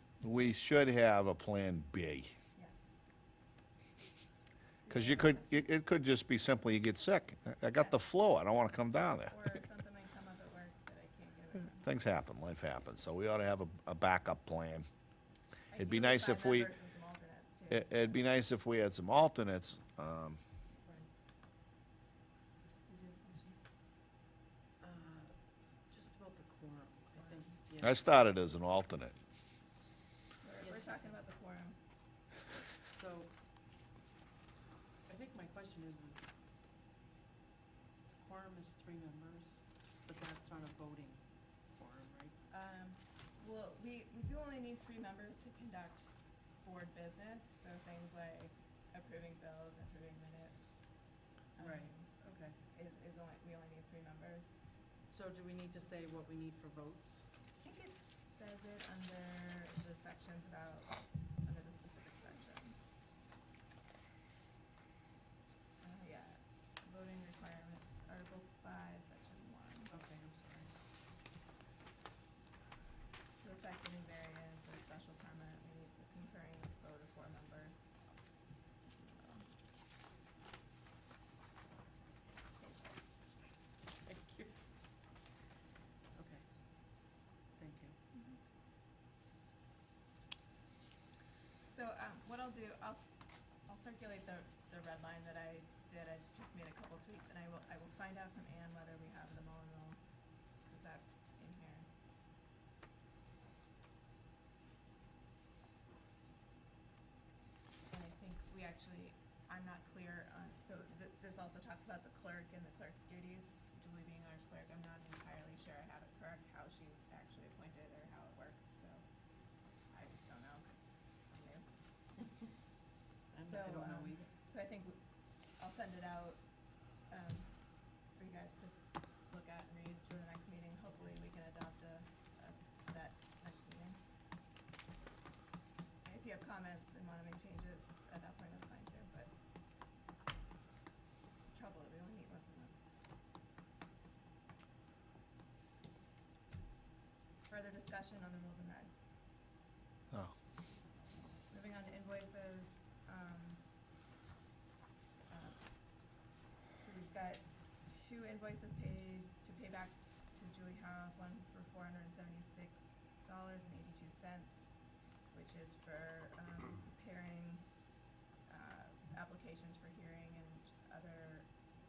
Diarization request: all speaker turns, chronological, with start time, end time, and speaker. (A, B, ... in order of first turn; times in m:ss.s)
0:00.2-0:02.3 A
0:04.8-0:05.6 B
0:04.9-0:09.3 A
0:09.3-0:12.0 B
0:11.8-0:14.9 A
0:15.7-0:18.2 B
0:15.8-0:16.7 A
0:17.7-0:20.4 A
0:22.9-0:23.6 B
0:24.8-0:25.4 C
0:25.9-0:28.0 C
0:27.2-0:27.4 B
0:27.8-0:29.1 A
0:30.4-0:31.8 B
0:30.6-0:31.2 C
0:32.9-0:33.3 C
0:35.1-0:36.3 C
0:38.2-0:42.4 C
0:42.5-0:46.1 B
0:46.6-0:50.7 B
0:51.6-0:52.1 B
0:51.6-0:52.6 C
0:52.7-0:54.5 B
0:55.1-0:57.3 C
0:57.6-1:03.0 B
1:05.8-1:09.9 B
1:09.9-1:10.7 C
1:13.4-1:17.8 B
1:18.9-1:19.5 B
1:22.6-1:23.1 B
1:24.0-1:24.5 C
1:26.2-1:26.4 C
1:27.6-1:28.0 C
1:31.7-1:33.0 B
1:33.7-1:40.0 B
1:40.7-1:41.9 B
1:47.9-1:59.0 B
1:59.9-2:01.6 B
2:03.3-2:04.3 C
2:03.4-2:05.0 B
2:05.6-2:06.4 B
2:07.1-2:07.5 B
2:08.1-2:08.8 B
2:09.3-2:14.0 B
2:16.0-2:19.3 B
2:21.4-2:22.7 B
2:27.5-2:29.0 B
2:31.5-2:33.6 B
2:35.3-2:35.6 B
2:36.8-2:44.6 B
2:45.3-2:47.7 B
2:48.5-2:51.5 B